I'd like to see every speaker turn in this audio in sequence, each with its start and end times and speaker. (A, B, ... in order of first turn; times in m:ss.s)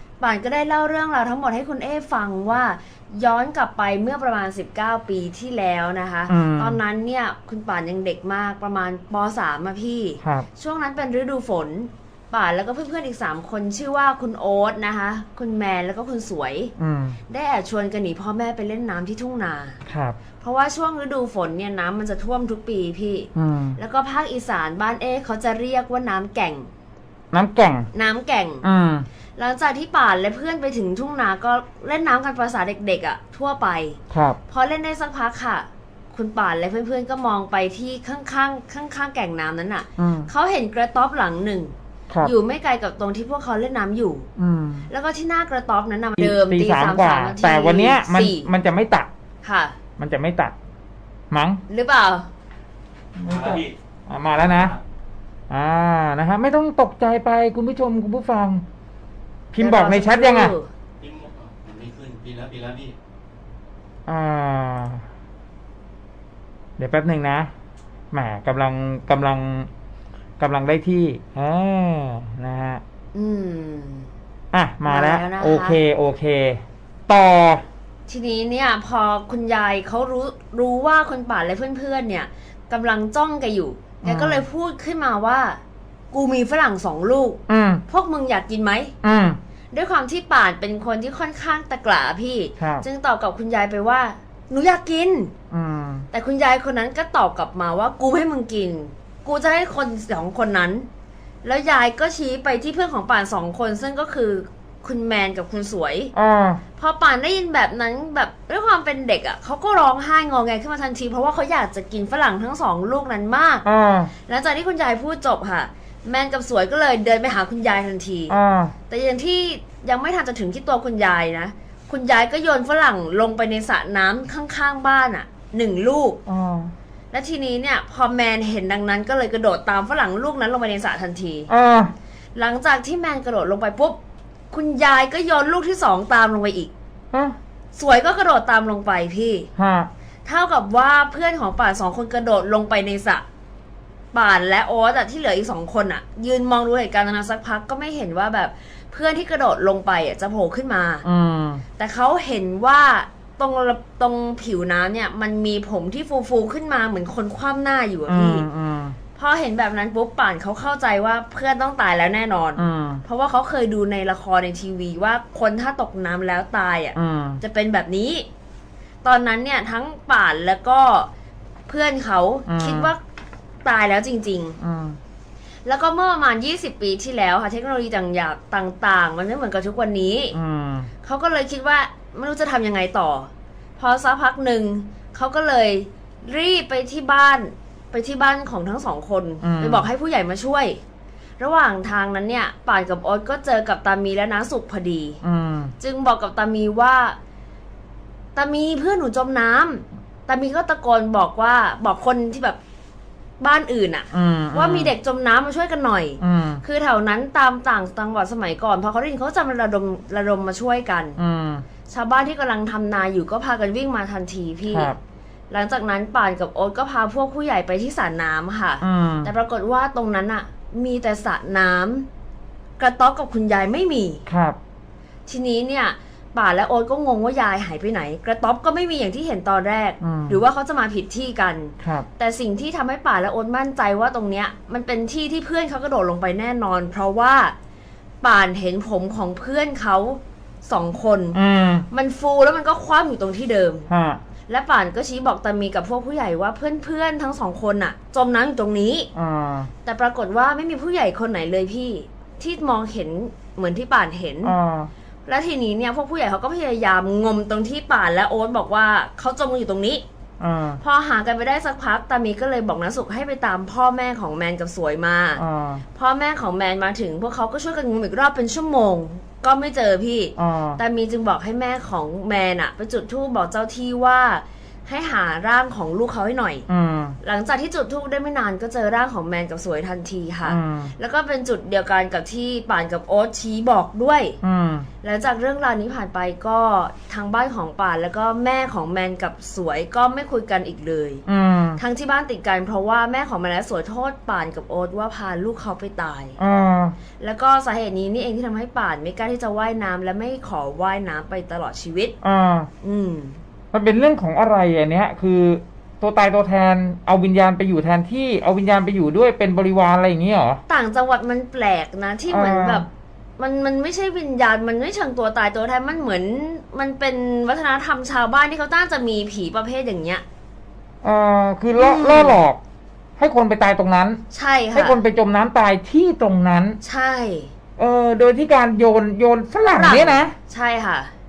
0:00.2-0:16.7 A
0:06.3-0:06.8 B
0:16.8-0:17.2 B
0:17.3-0:19.8 A
0:19.9-0:20.2 B
0:20.4-0:26.7 A
0:23.4-0:23.8 B
0:27.3-0:27.9 B
0:27.9-0:28.7 A
0:28.6-0:29.1 B
0:29.4-0:44.3 A
0:34.1-0:34.4 B
0:40.0-0:40.3 B
0:44.4-0:44.9 B
0:44.9-0:48.5 A
0:46.2-0:49.1 B
0:49.4-0:49.8 A
0:50.0-0:50.6 B
0:51.3-0:51.6 B
0:51.7-0:52.3 A
0:53.2-0:54.8 B
0:55.5-0:58.6 B
0:59.5-1:00.5 B
0:59.6-1:00.7 A
1:01.0-1:03.0 C
1:04.1-1:05.0 B
1:06.8-1:07.5 B
1:08.1-1:09.7 B
1:10.4-1:12.8 B
1:13.1-1:14.1 A
1:14.5-1:17.6 B
1:14.9-1:15.8 A
1:18.1-1:25.6 A
1:24.0-1:24.4 B
1:26.1-1:28.9 A
1:27.5-1:27.8 B
1:29.0-1:29.4 B
1:29.7-1:35.3 A
1:32.6-1:32.8 B
1:35.5-1:36.1 B
1:36.1-1:40.9 A
1:41.4-1:46.1 A
1:46.2-1:46.6 B
1:46.8-1:53.6 A
1:53.6-1:54.1 B
1:54.3-1:58.4 A
1:58.3-1:58.8 B
1:58.9-2:06.2 A
2:06.3-2:06.7 B
2:07.1-2:11.5 A
2:11.5-2:11.9 B
2:12.4-2:14.0 A
2:14.5-2:16.7 A
2:17.7-2:19.5 A
2:19.6-2:19.9 B
2:20.3-2:23.2 A
2:24.1-2:31.0 A
2:31.0-2:31.6 B
2:31.8-2:38.5 A
2:38.1-2:39.0 B
2:39.2-2:48.3 A
2:42.6-2:43.0 B
2:47.0-2:47.4 B
2:49.0-2:51.1 A
2:51.7-2:53.0 A
2:52.5-2:52.9 B
2:53.6-2:54.6 A
2:54.6-2:55.0 B
2:55.6-3:00.4 A
3:00.3-3:00.9 B
3:01.0-3:10.8 A
3:09.4-3:09.9 B
3:11.4-3:15.2 A
3:15.2-3:15.7 B
3:15.8-3:17.2 A
3:18.4-3:22.6 A
3:23.4-3:31.2 A
3:24.1-3:24.9 B
3:26.2-3:26.6 B
3:31.2-3:31.7 B
3:31.9-3:34.9 A
3:34.7-3:35.0 B
3:35.5-3:42.1 A
3:38.8-3:39.3 B
3:42.8-3:44.2 A
3:44.3-3:44.6 B
3:45.3-3:57.6 A
3:50.0-3:50.4 B
3:51.8-3:52.1 B
3:58.2-4:01.4 A
4:01.3-4:01.9 B
4:01.9-4:03.9 A
4:03.9-4:04.2 B
4:04.5-4:09.1 A
4:09.2-4:09.7 B
4:09.8-4:14.6 A
4:14.4-4:14.9 B
4:15.3-4:20.0 A
4:20.4-4:20.8 B
4:20.8-4:25.4 A
4:25.4-4:25.8 B
4:25.9-4:36.7 A
4:30.4-4:30.8 B
4:36.7-4:37.2 B
4:37.2-4:44.4 A
4:40.4-4:40.9 B
4:44.4-4:44.9 B
4:45.0-4:51.2 A
4:51.3-4:51.8 B
4:51.8-4:56.4 A
4:56.4-4:57.0 B
4:57.2-5:02.1 A
5:02.2-5:02.7 B
5:02.8-5:03.4 A
5:03.7-5:10.6 B
5:10.7-5:12.9 A
5:12.3-5:12.8 B
5:13.4-5:20.2 A
5:21.0-5:22.6 B
5:21.8-5:22.4 A
5:23.2-5:24.2 B
5:24.3-5:25.0 A
5:24.8-5:26.8 B
5:26.8-5:27.5 A
5:27.8-5:30.3 B
5:29.7-5:31.1 A